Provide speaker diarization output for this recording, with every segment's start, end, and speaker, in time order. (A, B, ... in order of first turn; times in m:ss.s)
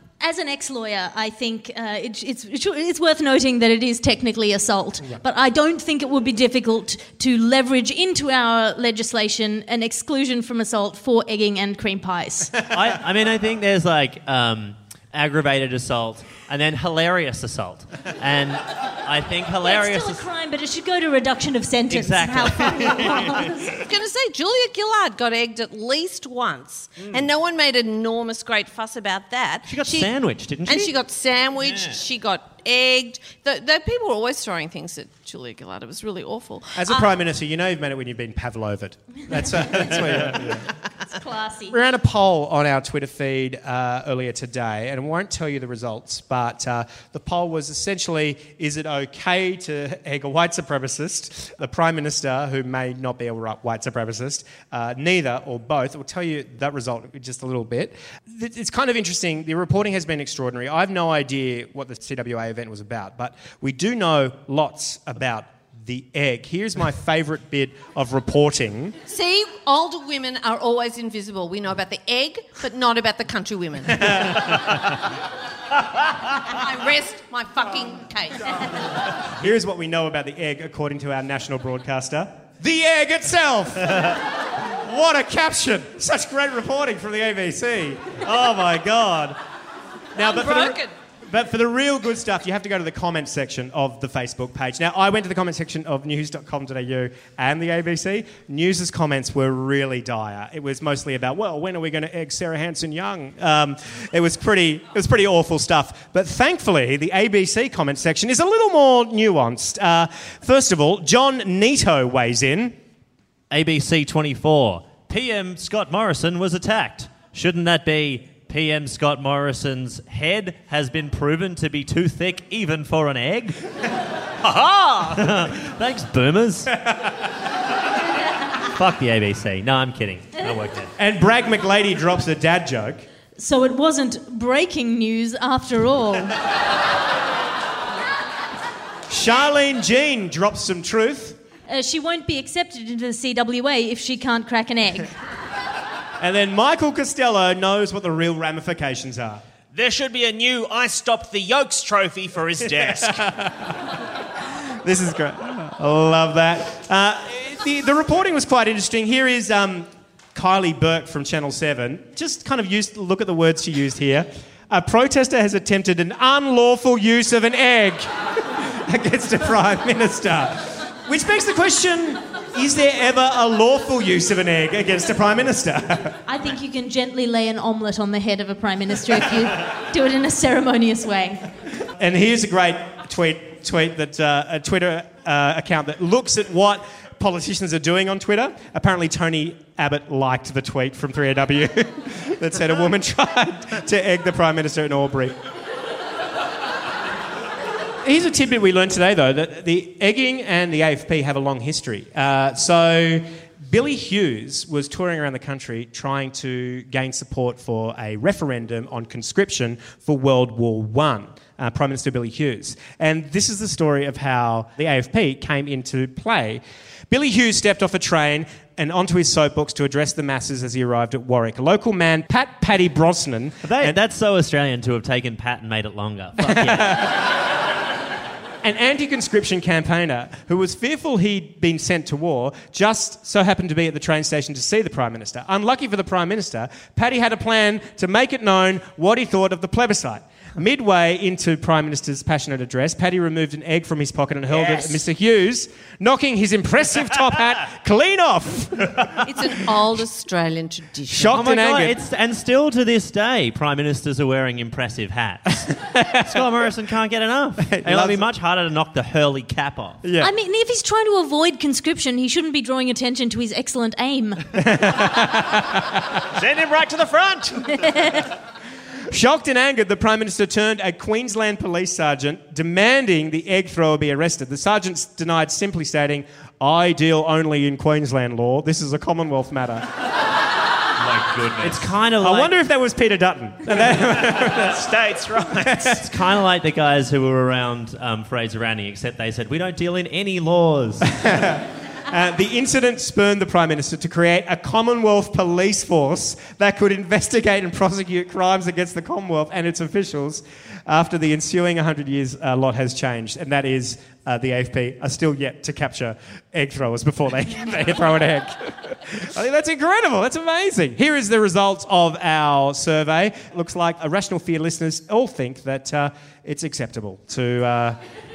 0:00.2-0:12.5 A
0:12.7-0:20.2 B
0:19.6-0:22.8 A
0:21.9-0:23.6 B
0:22.2-0:37.2 C
0:29.7-0:30.9 B
0:36.8-0:40.6 D
0:41.1-0:41.8 A
0:41.7-1:09.0 D
1:09.1-1:14.3 C
1:14.0-1:14.5 D
1:16.5-1:18.7 C
1:19.3-1:29.4 D
1:30.1-1:52.8 D
1:30.2-1:30.9 C
1:53.5-2:03.6 B
2:04.4-2:05.2 E
2:05.2-2:06.7 B
2:08.7-2:10.9 B
2:11.0-2:13.0 D
2:13.4-2:16.4 A
2:19.1-2:21.4 D
2:21.7-2:25.1 A
2:26.2-2:29.4 D
2:29.7-2:33.2 E
2:32.8-2:33.8 D
2:34.8-2:56.2 D
2:56.2-3:01.4 A
3:01.8-3:15.4 D
3:18.0-3:44.0 D
3:43.6-3:47.0 B
3:46.4-3:47.2 D
3:48.6-4:09.6 D
4:04.5-4:05.0 E
4:09.2-4:11.4 C
4:11.1-4:12.0 D
4:11.3-4:20.0 B
4:15.8-4:16.1 D
4:17.7-4:18.2 D
4:20.0-4:20.3 D
4:20.2-4:24.5 A
4:24.6-4:26.0 D
4:26.4-4:27.8 E
4:27.8-4:28.2 A
4:29.1-4:39.9 D
4:41.0-4:41.9 E
4:41.6-4:42.5 B
4:42.2-4:44.9 D
4:44.4-4:46.0 E
4:45.6-4:46.0 D
4:46.0-4:51.1 B
4:51.1-5:18.0 D